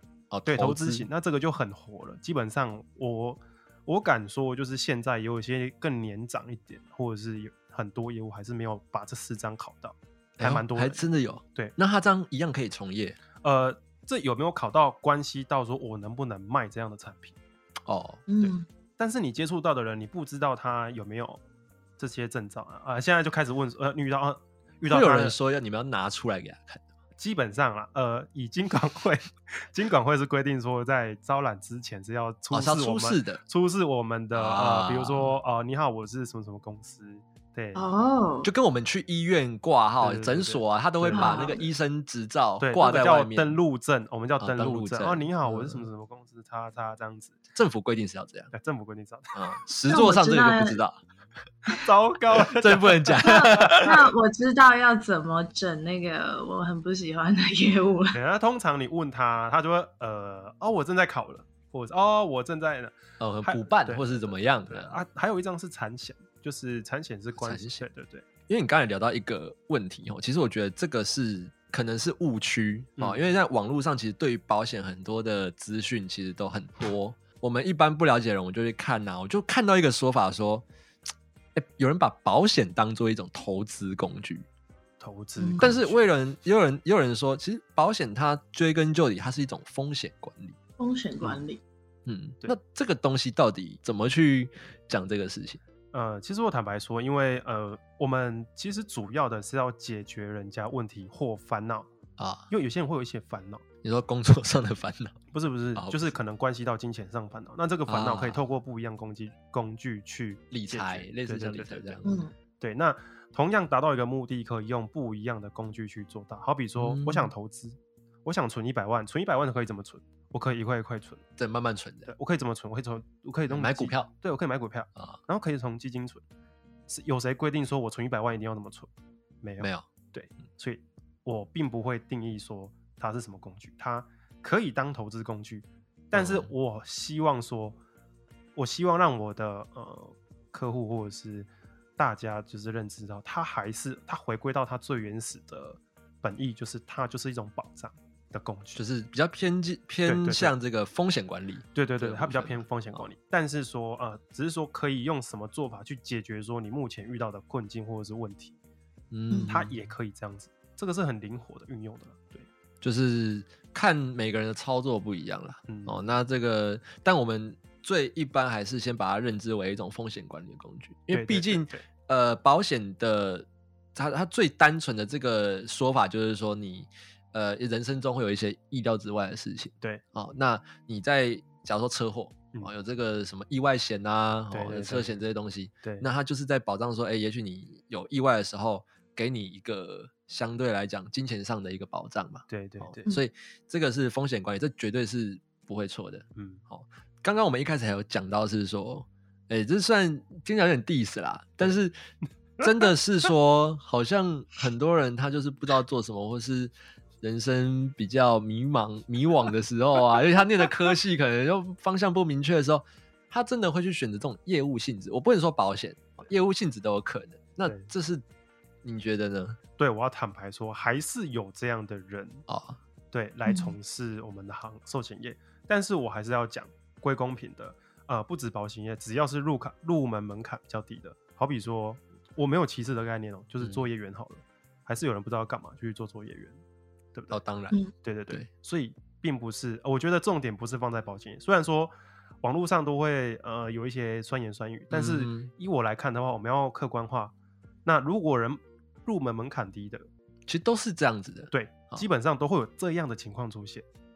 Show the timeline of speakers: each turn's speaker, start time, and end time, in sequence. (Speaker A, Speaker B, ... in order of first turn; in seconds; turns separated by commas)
Speaker A: 0.3-1.1, Speaker B: 0.5-11.0, Speaker A: 10.4-13.2, Speaker B: 13.4-17.4, Speaker A: 17.9-18.5, Speaker C: 18.3-18.7, Speaker B: 19.0-21.4, Speaker B: 22.0-25.4, Speaker A: 24.9-26.9, Speaker B: 27.2-37.9, Speaker A: 32.5-33.4, Speaker A: 34.3-35.4, Speaker C: 37.8-38.5, Speaker A: 38.4-43.6, Speaker B: 40.0-41.6, Speaker C: 41.1-41.6, Speaker B: 42.6-47.4, Speaker A: 44.4-45.9, Speaker A: 47.5-48.5, Speaker B: 48.5-49.3, Speaker A: 49.3-51.0, Speaker C: 49.9-50.8, Speaker B: 51.7-54.0, Speaker A: 52.5-54.1, Speaker C: 53.2-58.2, Speaker B: 58.1-68.3, Speaker A: 63.2-65.0, Speaker A: 67.4-67.9, Speaker A: 68.5-80.7, Speaker B: 73.0-73.3, Speaker A: 81.5-84.5, Speaker B: 85.0-86.0, Speaker C: 85.4-85.7, Speaker A: 85.6-90.6, Speaker C: 90.8-91.6, Speaker A: 92.1-95.6, Speaker B: 95.9-101.9, Speaker A: 102.2-102.5, Speaker B: 102.5-103.6, Speaker A: 103.8-105.2, Speaker B: 105.3-112.0, Speaker A: 105.8-106.1, Speaker A: 107.9-108.4, Speaker A: 110.5-112.2, Speaker C: 112.0-112.3, Speaker B: 112.6-121.2, Speaker A: 116.8-117.3, Speaker A: 121.4-122.1, Speaker B: 122.1-126.2, Speaker A: 123.5-124.1, Speaker B: 126.9-128.9, Speaker B: 129.4-137.8, Speaker A: 129.6-129.9, Speaker A: 136.1-136.5, Speaker B: 138.6-148.8, Speaker A: 148.8-153.0, Speaker B: 150.1-150.6, Speaker B: 151.8-158.5, Speaker A: 159.1-159.7, Speaker B: 159.5-162.5, Speaker A: 162.8-202.0, Speaker B: 165.7-166.0, Speaker B: 171.1-171.8, Speaker B: 184.5-185.2, Speaker B: 192.5-193.1, Speaker B: 196.4-196.6, Speaker A: 202.6-218.2, Speaker A: 218.8-219.6, Speaker B: 219.8-222.4, Speaker A: 222.5-222.8, Speaker B: 223.1-236.6, Speaker C: 223.5-223.7, Speaker A: 237.3-237.8, Speaker B: 238.0-247.3, Speaker A: 244.9-245.5, Speaker B: 247.8-250.1, Speaker A: 250.5-252.0, Speaker B: 251.5-253.8